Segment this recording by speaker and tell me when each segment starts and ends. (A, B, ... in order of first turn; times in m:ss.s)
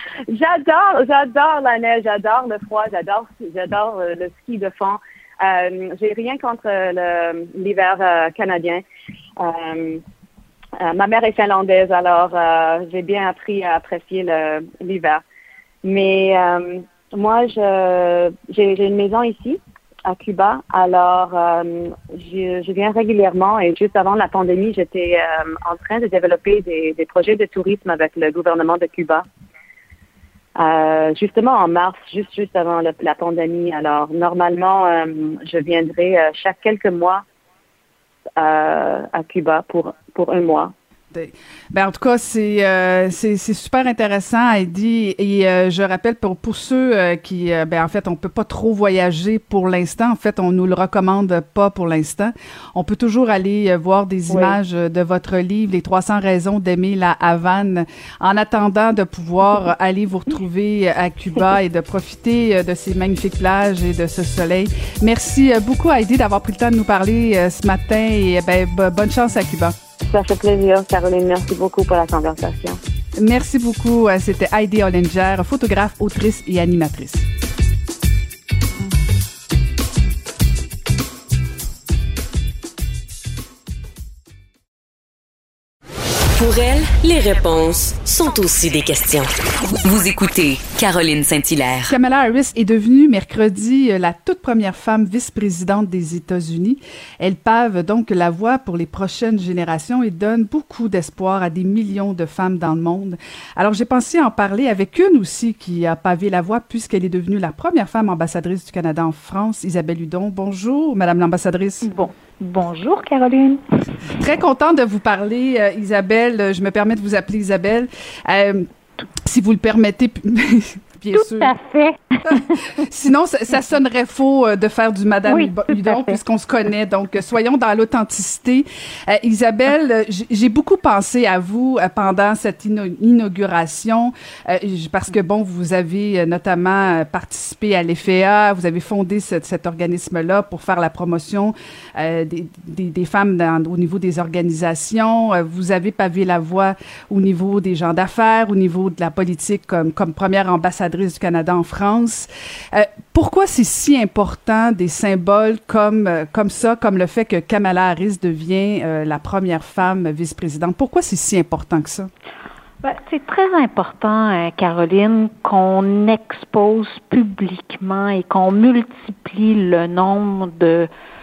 0:00.3-0:08.8 A
0:09.4-0:10.0 A
0:10.8-0:15.2 A
0:15.8-0:29.3 A
0:30.6-0:37.2 A
0:38.4-0:40.7 A
0:41.1-1:09.8 B
1:10.1-1:12.8 A
1:13.2-1:17.3 B
1:26.3-1:29.3 C
1:29.8-1:31.9 C
1:31.9-1:51.9 B
1:51.8-1:53.6 D
1:54.1-1:58.7 B
1:59.2-2:01.6 B
2:01.1-2:02.8 D
2:02.3-2:42.1 B
2:05.3-2:06.2 D
2:42.8-2:50.9 D